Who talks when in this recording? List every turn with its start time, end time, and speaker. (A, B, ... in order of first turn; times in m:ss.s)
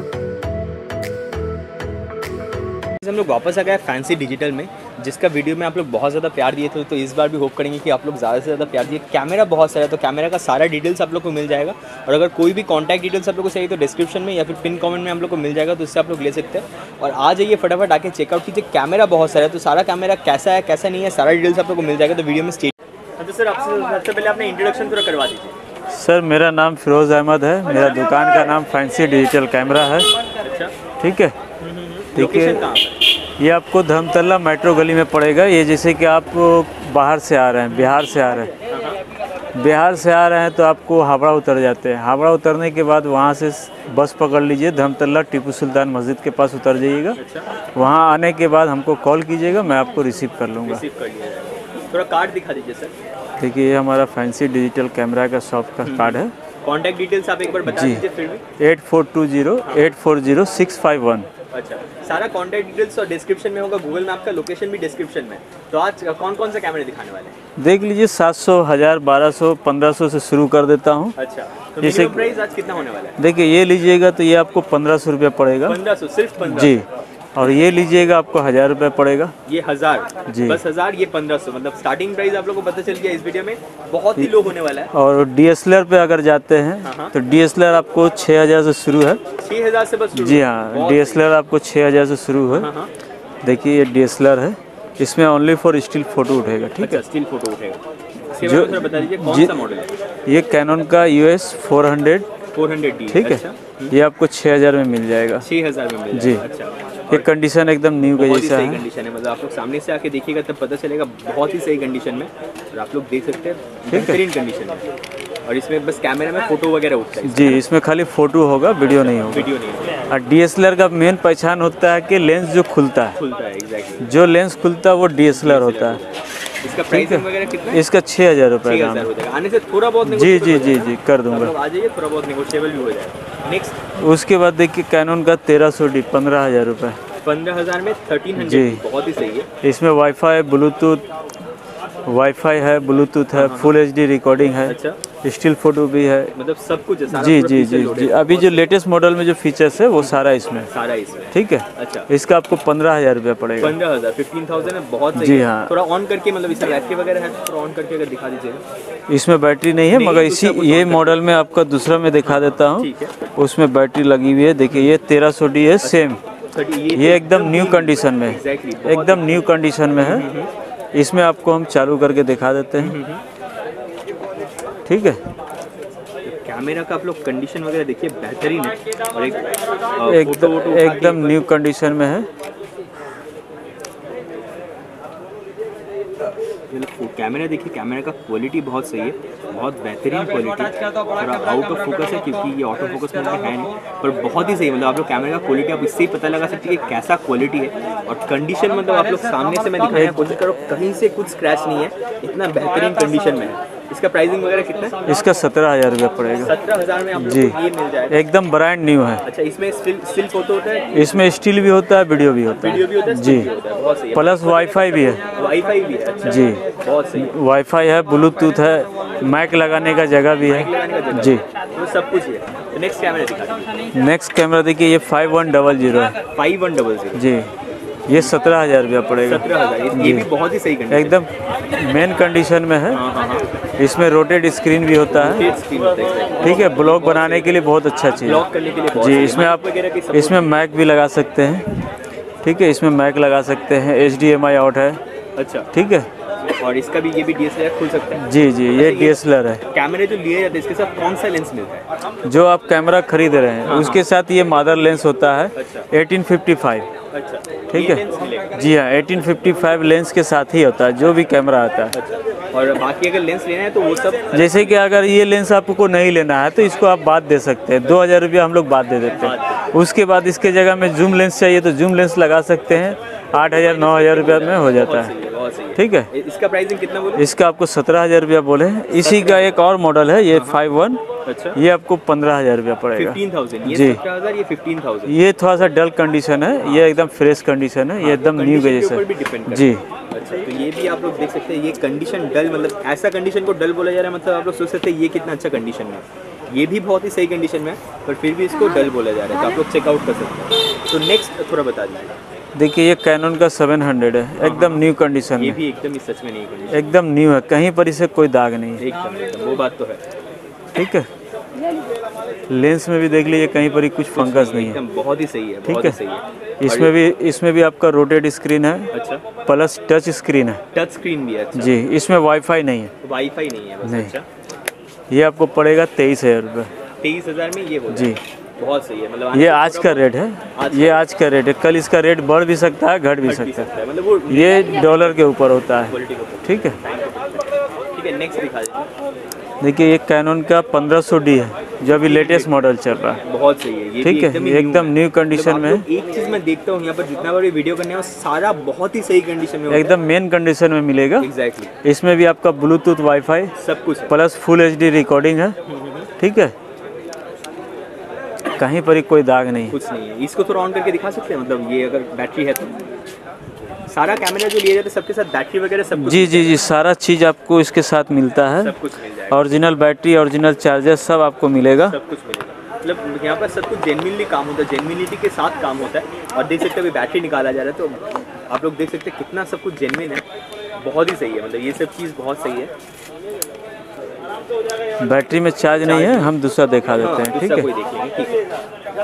0:03.0-0:25.6 A
0:25.9-0:30.1 B
0:30.4-0:30.7 A
0:31.0-0:31.3 B
0:31.6-0:33.0 A
0:32.1-0:32.6 B
0:33.4-0:38.5 B
0:37.7-0:38.1 A
0:38.7-0:39.0 A
0:39.5-0:47.2 B
0:47.2-0:47.5 A
0:47.7-0:50.8 B
0:50.6-0:52.9 A
0:53.4-0:56.3 B
0:55.8-0:58.4 A
0:57.7-0:58.0 B
0:58.6-1:01.3 B
0:59.6-0:59.9 A
1:01.5-1:07.4 A
1:07.6-1:11.1 B
1:11.2-1:13.2 A
1:11.8-1:12.2 B
1:13.2-1:15.8 B
1:15.6-1:16.8 A
1:16.4-1:16.8 B
1:17.4-1:19.3 B
1:17.4-1:17.8 A
1:19.4-1:24.9 A
1:20.3-1:20.6 B
1:24.2-1:29.2 B
1:26.8-1:27.1 A
1:29.4-1:31.2 A
1:30.1-1:32.7 B
1:32.5-1:32.9 A
1:33.4-1:37.0 B
1:36.8-1:39.9 A
1:38.4-1:39.5 B
1:40.3-1:42.3 B
1:42.5-1:43.9 A
1:43.1-1:45.4 B
1:45.4-1:47.3 A
1:46.1-1:46.4 B
1:47.1-1:48.8 B
1:48.0-1:54.9 A
1:53.9-1:54.2 B
1:55.4-1:57.6 A
1:57.2-1:59.5 B
1:58.8-2:00.0 A
2:00.1-2:03.2 B
2:03.2-2:04.1 A
2:04.0-2:06.0 B
2:05.3-2:07.8 A
2:06.9-2:09.1 B
2:08.6-2:13.8 A
2:10.0-2:11.5 B
2:14.0-2:17.0 B
2:17.2-2:19.5 A
2:18.4-2:18.8 B
2:19.6-2:21.0 B
2:22.0-2:26.3 B
2:23.3-2:23.8 A
2:24.6-2:25.0 A
2:26.3-2:28.7 A
2:27.1-2:30.7 B
2:30.7-2:32.1 A
2:31.3-2:33.7 B
2:33.6-2:38.6 A
2:35.1-2:35.7 B
2:39.1-2:46.2 B
2:39.9-2:41.2 A
2:42.2-2:43.1 A
2:45.8-2:50.5 A
2:46.9-2:50.2 B
2:50.9-2:53.0 B
2:52.8-2:53.2 A
2:54.8-2:55.2 B
2:56.2-3:01.4 A
3:00.1-3:02.3 B
3:06.7-3:25.0 A
3:19.9-3:20.4 B
3:25.0-3:26.5 B
3:26.4-3:28.2 A
3:27.1-3:27.6 B
3:28.1-3:29.2 B
3:29.2-3:31.2 A
3:30.9-3:33.5 B
3:32.6-3:37.3 A
3:34.1-3:35.2 B
3:36.2-3:36.6 B
3:37.2-3:41.4 B
3:40.4-3:43.7 A
3:43.9-3:46.1 B
3:46.3-3:47.2 A
3:47.1-3:47.5 B
3:48.1-3:50.3 B
3:48.1-3:48.3 A
3:49.2-3:51.2 A
3:50.9-3:53.0 B
3:52.9-3:53.4 A
3:53.8-3:55.4 B
3:55.1-3:57.6 A
3:56.4-4:01.9 B
3:58.2-4:00.4 A
4:02.4-4:05.0 B
4:05.4-4:05.7 A
4:05.7-4:06.1 B
4:06.5-4:09.2 A
4:08.2-4:09.6 B
4:09.7-4:11.9 A
4:12.2-4:16.9 B
4:13.6-4:14.0 A
4:15.5-4:15.9 A
4:17.1-4:18.5 A
4:17.7-4:21.9 B
4:21.9-4:24.8 A
4:24.3-4:35.1 B
4:29.1-4:29.7 A
4:33.4-4:37.3 A
4:35.8-4:36.1 B
4:37.2-4:41.0 B
4:38.9-4:39.6 A
4:40.3-4:40.6 A
4:41.2-4:41.6 A
4:41.5-4:44.0 B
4:42.9-4:45.2 A
4:45.1-4:49.8 B
4:46.6-4:47.1 A
4:48.0-5:02.2 A
5:02.5-5:05.6 B
5:04.4-5:06.9 A
5:06.7-5:08.8 B
5:08.8-5:10.0 A
5:10.7-5:11.1 B
5:12.5-5:14.8 B
5:14.1-5:16.9 A
5:15.6-5:16.0 B
5:16.6-5:18.9 B
5:18.9-5:19.2 A
5:19.4-5:20.6 B
5:20.7-5:21.8 A
5:21.5-5:22.9 B
5:23.0-5:24.2 A
5:23.8-5:24.1 B
5:25.1-5:26.7 B
5:27.0-5:31.0 A
5:27.9-5:28.2 B
5:29.3-5:33.7 B
5:33.2-5:35.2 A
5:34.3-5:36.8 B
5:35.9-5:38.9 A
5:39.6-5:43.2 B
5:41.8-5:49.9 A
5:44.0-5:45.8 B
5:49.7-5:51.3 B
5:51.2-5:51.7 A
5:51.8-5:53.5 B
5:53.6-5:54.1 A
5:54.1-5:55.6 B
5:55.6-5:56.1 A
5:56.2-5:56.5 B
5:58.6-5:59.8 B
5:59.7-6:02.8 A
6:03.9-6:06.6 A
6:06.0-6:08.8 B
6:08.6-6:09.4 A
6:09.3-6:12.0 B
6:11.8-6:20.2 A
6:20.8-6:22.7 A
6:25.0-6:27.7 B
6:25.8-6:26.3 A
6:27.0-6:28.4 A